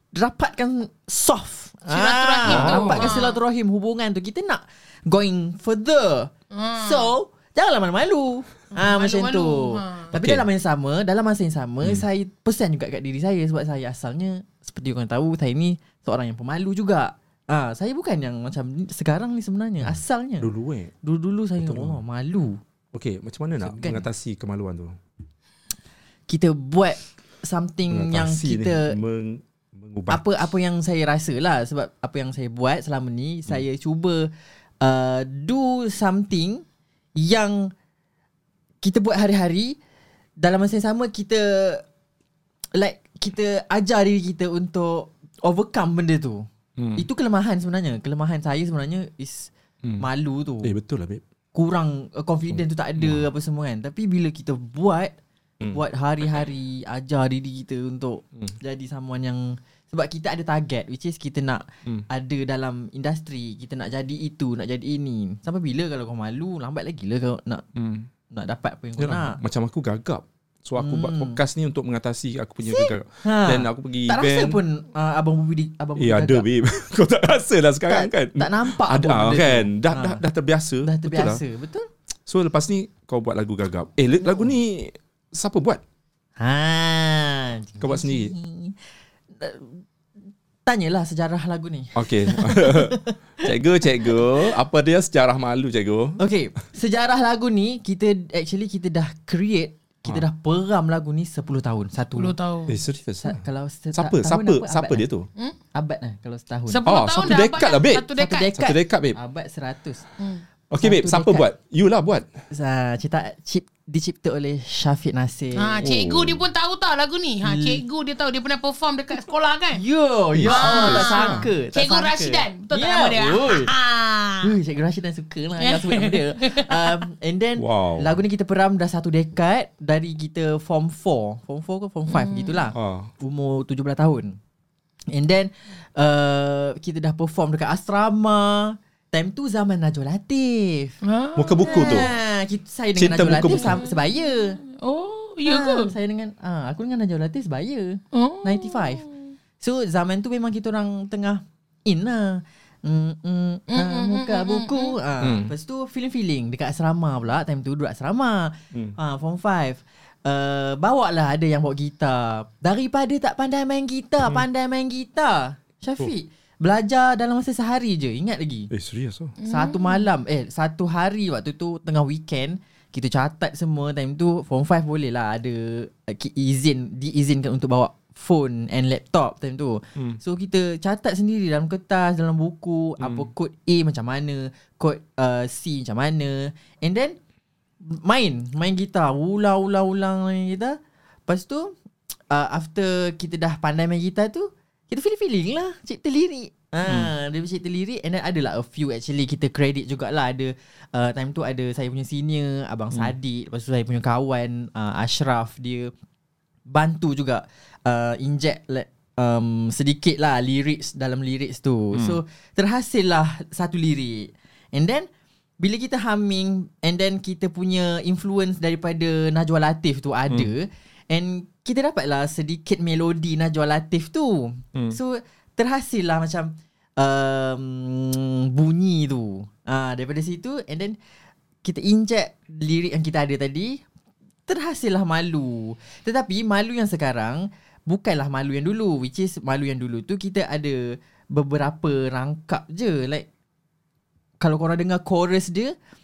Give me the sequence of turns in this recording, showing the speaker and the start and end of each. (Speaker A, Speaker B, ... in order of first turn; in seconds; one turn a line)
Speaker A: 0.1-20.5
Speaker B: 1.9-3.4
Speaker C: 2.5-3.1
Speaker B: 6.5-7.1
Speaker B: 8.7-10.1
Speaker C: 10.1-10.4
Speaker C: 19.8-20.9
Speaker A: 21.0-22.6
Speaker C: 21.6-22.0
Speaker C: 22.9-25.0
Speaker A: 23.6-24.1
Speaker A: 26.3-29.0
Speaker C: 27.9-30.2
Speaker A: 30.1-34.3
Speaker A: 34.8-36.6
Speaker A: 37.1-37.7
Speaker A: 38.8-39.8
Speaker A: 40.4-41.8
Speaker A: 42.7-50.7
Speaker C: 46.8-47.0
Speaker C: 50.6-51.2
Speaker A: 51.5-55.1
Speaker C: 52.5-53.2
Speaker A: 55.7-67.6
Speaker C: 67.8-68.1
Speaker A: 68.3-69.4
Speaker C: 69.0-74.6
Speaker A: 70.8-71.4
Speaker A: 72.6-76.5
Speaker C: 76.0-81.4
Speaker A: 77.9-80.2
Speaker A: 80.8-81.9
Speaker C: 82.3-85.8
Speaker A: 86.4-88.8
Speaker C: 87.8-88.3
Speaker A: 89.3-89.8
Speaker A: 90.7-94.5
Speaker C: 92.0-96.2
Speaker A: 96.2-102.3
Speaker B: 102.2-102.7
Speaker C: 102.7-103.4
Speaker A: 103.2-105.0
Speaker C: 103.9-105.3
Speaker A: 105.7-107.4
Speaker B: 106.7-108.5
Speaker C: 106.8-109.2
Speaker A: 108.1-110.0
Speaker C: 110.7-112.3
Speaker A: 110.8-111.5
Speaker A: 112.5-115.9
Speaker B: 115.5-119.8
Speaker C: 115.8-116.4
Speaker A: 117.4-117.8
Speaker A: 119.7-123.7
Speaker C: 120.3-121.5
Speaker B: 120.5-124.5
Speaker A: 124.4-134.4
Speaker B: 125.6-127.0
Speaker C: 127.6-128.1
Speaker B: 132.1-132.7
Speaker C: 132.7-133.1
Speaker A: 135.1-140.9
Speaker B: 141.0-142.1
Speaker C: 141.4-142.1
Speaker A: 141.7-144.6
Speaker C: 142.9-143.8
Speaker B: 143.4-145.9
Speaker A: 145.4-149.0
Speaker B: 148.1-149.3
Speaker A: 149.6-168.7
Speaker B: 153.7-154.9
Speaker C: 155.2-155.5
Speaker C: 168.7-169.3
Speaker B: 169.4-170.1
Speaker A: 169.5-187.2
Speaker C: 183.0-183.3
Speaker A: 187.8-191.8
Speaker A: 192.3-205.9
Speaker C: 196.8-197.1
Speaker A: 206.7-215.1
Speaker A: 215.6-231.0
Speaker A: 231.6-233.8
Speaker A: 234.5-243.3
Speaker A: 244.4-245.7